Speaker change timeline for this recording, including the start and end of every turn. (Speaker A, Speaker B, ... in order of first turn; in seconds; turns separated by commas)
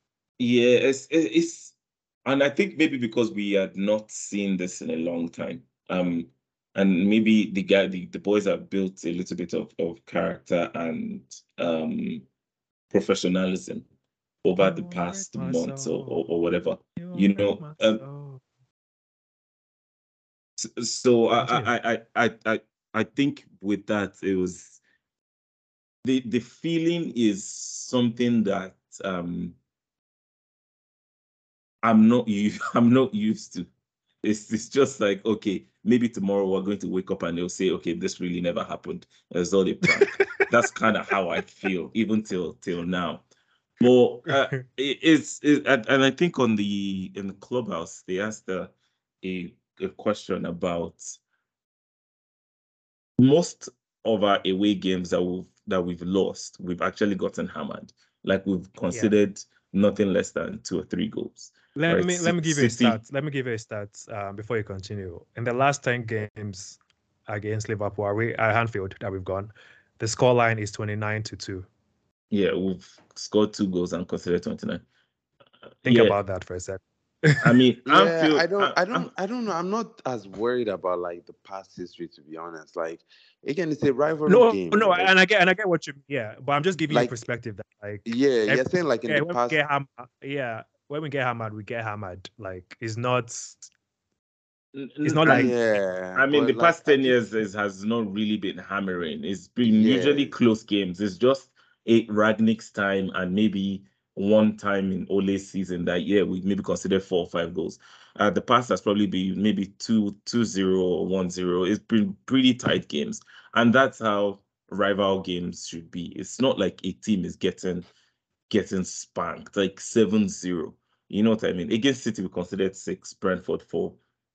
Speaker A: 0.4-12.2, Speaker A: 12.9-13.9, Speaker A: 14.4-18.0, Speaker B: 14.6-16.2, Speaker B: 17.0-18.4, Speaker A: 20.6-24.8, Speaker B: 21.4-21.7, Speaker A: 26.0-29.6, Speaker A: 31.8-33.7, Speaker A: 34.2-43.2, Speaker B: 39.9-40.5, Speaker A: 43.8-48.7, Speaker B: 44.3-44.6, Speaker A: 49.2-51.2, Speaker A: 53.2-63.0, Speaker B: 61.8-71.7, Speaker A: 72.3-74.8, Speaker A: 75.8-76.2, Speaker B: 75.8-77.4, Speaker A: 77.4-79.1, Speaker C: 77.9-85.1, Speaker B: 84.3-93.7, Speaker C: 88.0-89.6, Speaker A: 94.7-95.6, Speaker B: 95.0-95.5, Speaker C: 95.2-97.2, Speaker A: 96.1-117.9, Speaker C: 99.6-100.4, Speaker A: 118.5-124.0